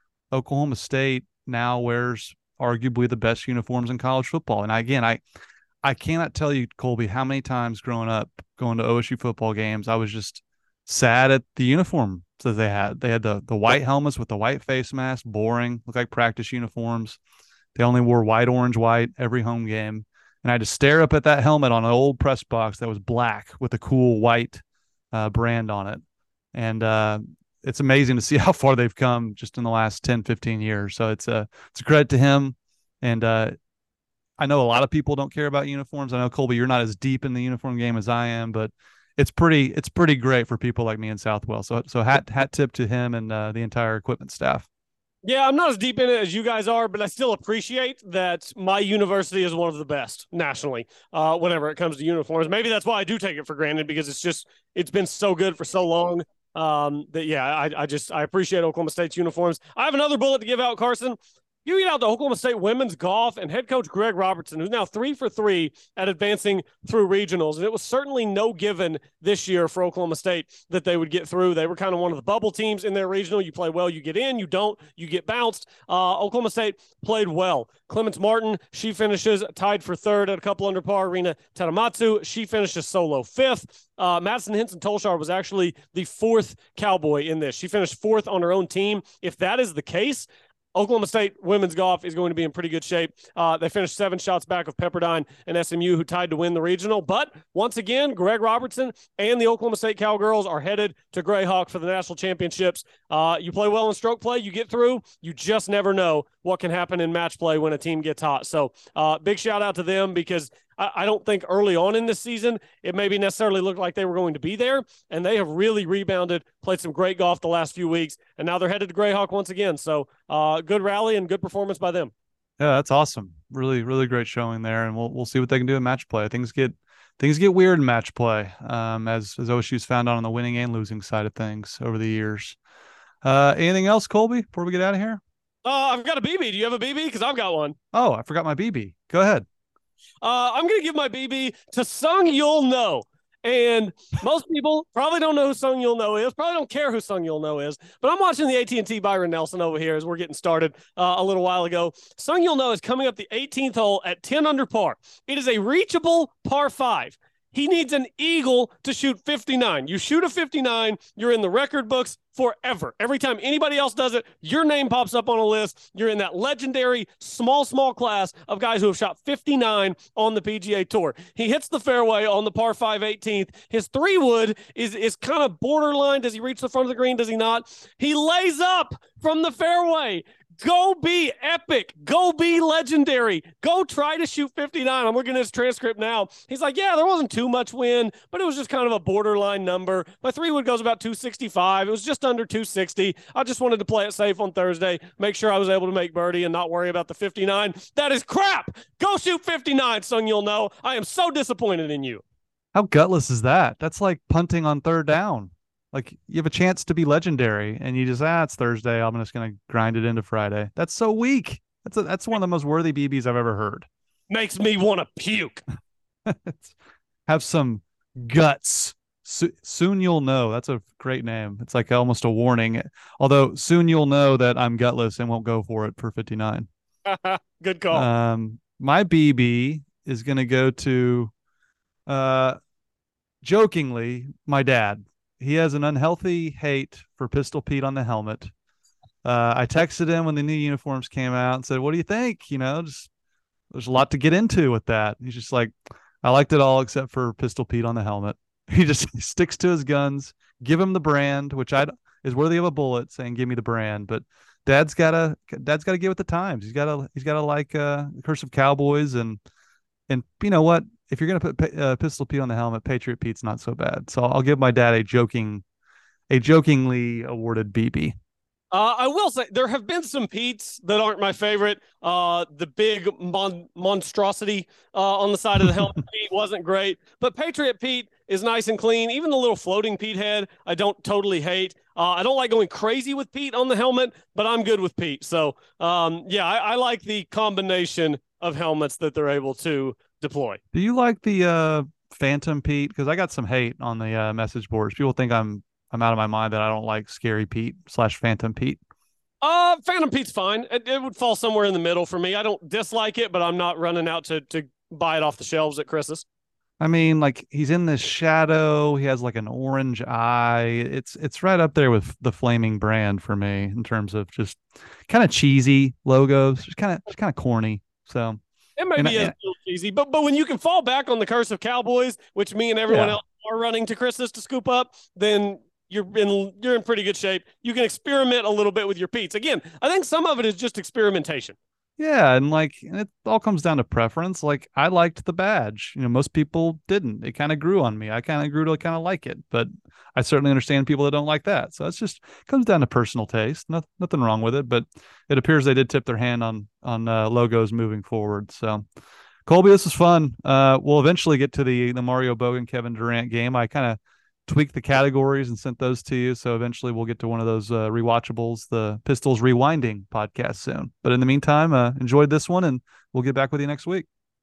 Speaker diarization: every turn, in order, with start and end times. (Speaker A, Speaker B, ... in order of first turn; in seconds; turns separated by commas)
Speaker A: 0.3-5.2, Speaker A: 5.8-17.2, Speaker A: 17.7-26.0, Speaker A: 26.5-33.5, Speaker A: 34.4-44.7, Speaker B: 45.2-122.1, Speaker A: 122.6-132.6, Speaker A: 133.2-135.2, Speaker B: 135.6-137.8, Speaker A: 137.9-139.4, Speaker B: 140.2-202.2, Speaker A: 202.7-213.9, Speaker B: 214.3-215.6, Speaker A: 216.2-216.7, Speaker A: 217.3-226.7, Speaker B: 227.1-228.1, Speaker A: 227.9-231.3, Speaker A: 232.1-232.6, Speaker A: 233.4-238.5, Speaker A: 239.2-243.1, Speaker A: 243.7-259.4, Speaker A: 260.1-265.6, Speaker A: 266.3-268.1, Speaker B: 268.7-290.6, Speaker A: 290.7-298.8, Speaker B: 299.4-306.2, Speaker A: 306.8-318.4, Speaker B: 318.8-331.6, Speaker A: 319.0-319.3, Speaker A: 322.9-323.2, Speaker A: 332.0-348.8, Speaker A: 349.4-364.1